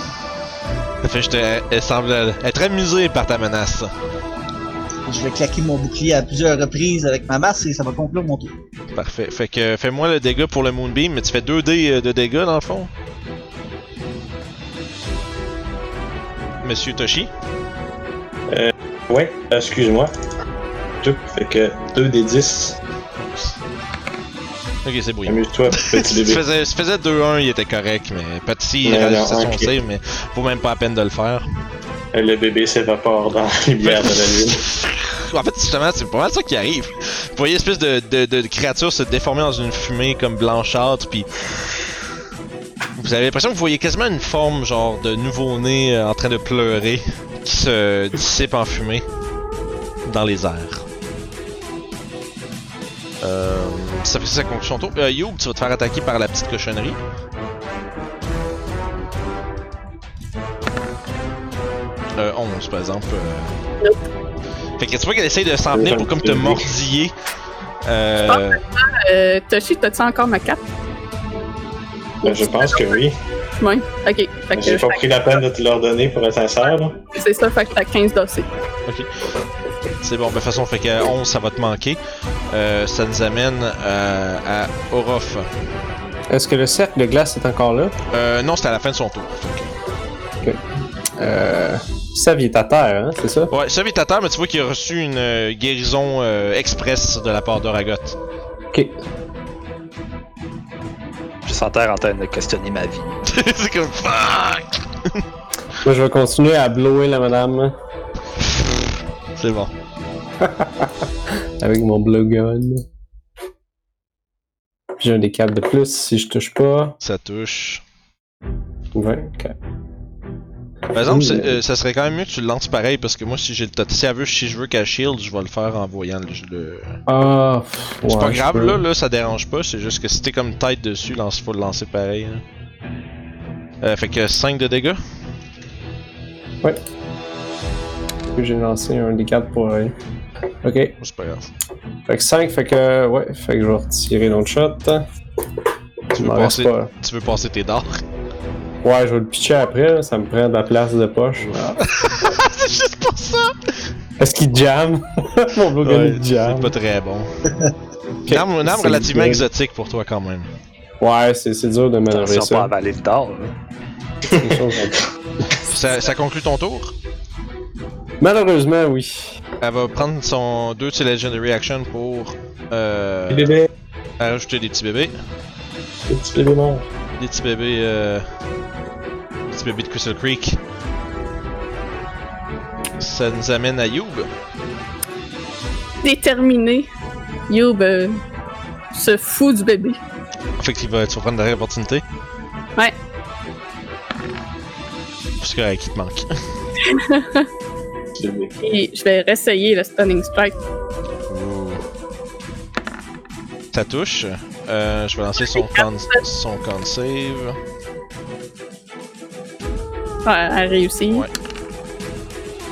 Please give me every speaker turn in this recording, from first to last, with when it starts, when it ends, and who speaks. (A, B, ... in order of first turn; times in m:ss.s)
0:01.0-0:03.9 A
0:05.0-0:08.5 B
0:08.9-0:12.9 A
0:16.6-0:17.3 A
0:18.5-0:20.1 C
0:21.0-0:22.8 C
0:23.2-0:23.6 A
0:24.8-0:31.4 A
0:25.2-0:26.4 C
0:28.8-0:29.7 C
0:32.1-0:34.6 C
0:33.8-0:41.3 A
0:43.0-0:49.0 A
0:50.0-0:50.8 A
0:53.2-0:57.0 A
1:02.2-1:03.5 A
1:04.8-1:07.1 A
1:05.7-1:06.7 C
1:07.8-1:08.6 A
1:08.3-1:10.6 D
1:12.2-1:13.0 D
1:12.2-1:13.1 C
1:13.6-1:15.0 D
1:14.5-1:17.0 C
1:17.1-1:18.5 D
1:20.0-1:22.0 A
1:22.5-1:25.5 A
1:26.3-1:27.9 E
1:28.1-1:29.8 A
1:31.2-1:33.5 E
1:33.5-1:38.2 A
1:41.4-1:43.2 F
1:43.3-1:45.2 A
1:45.8-1:47.7 E
1:48.4-1:48.8 A
1:49.4-1:49.7 A
1:50.4-1:51.0 E
1:51.6-1:52.8 E
1:55.0-1:57.0 E
1:57.0-1:57.8 A
1:58.9-1:59.5 E
2:00.9-2:07.0 A
2:01.0-2:01.6 E
2:07.1-2:08.8 E
2:08.1-2:12.4 A
2:13.8-2:15.0 A
2:18.3-2:19.9 E
2:20.6-2:20.9 E
2:21.0-2:21.5 A
2:22.0-2:25.0 E
2:26.1-2:28.0 A
2:26.1-2:26.9 E
2:28.8-2:31.8 E
2:31.4-2:33.6 A
2:34.2-2:36.7 E
2:35.8-2:37.3 A
2:38.3-2:39.5 E
2:38.3-2:40.5 A
2:41.0-2:42.7 E
2:42.1-2:43.5 F
2:44.3-2:45.0 E
2:45.6-2:46.9 A
2:48.2-2:49.3 E
2:49.6-2:53.6 A
2:53.3-2:53.7 C
2:54.2-2:55.1 A
2:56.1-2:56.9 C
2:57.2-2:58.2 A
2:59.5-3:00.6 A
3:03.0-3:04.3 A
3:06.0-3:06.9 D
3:07.5-3:08.2 D
3:08.9-3:10.0 D
3:10.6-3:12.0 A
3:15.4-3:16.3 A
3:16.8-3:17.5 D
3:18.2-3:18.5 C
3:18.6-3:20.5 D
3:21.3-3:21.8 A
3:23.7-3:27.6 A
3:25.6-3:25.8 D
3:30.2-3:31.2 D
3:31.0-3:31.3 A